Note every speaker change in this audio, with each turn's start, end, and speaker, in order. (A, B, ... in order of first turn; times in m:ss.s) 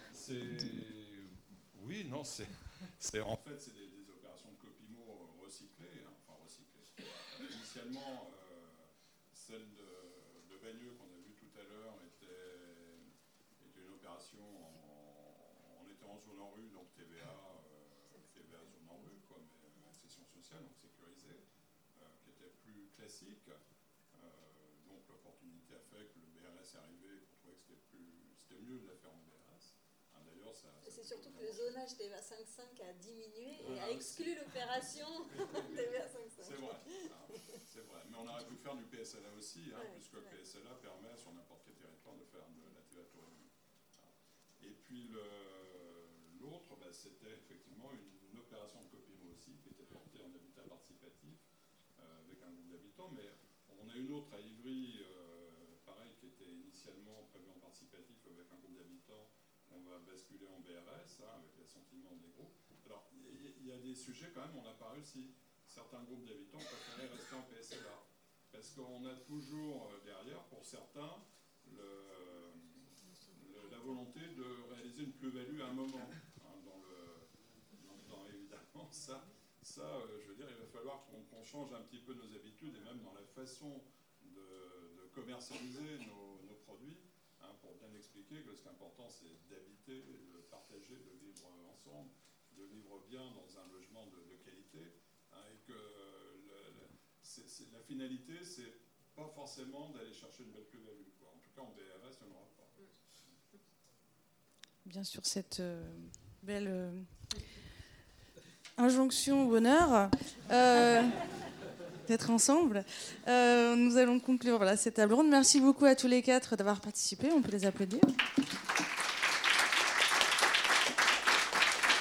0:00.1-0:23.6 A
0:24.1-0:31.8 A
0:30.8-0:37.0 B
0:33.6-0:51.4 A
0:39.8-0:40.4 B
0:52.0-1:42.9 A
1:44.8-1:47.1 C
1:48.8-1:51.2 C
1:52.0-1:58.1 C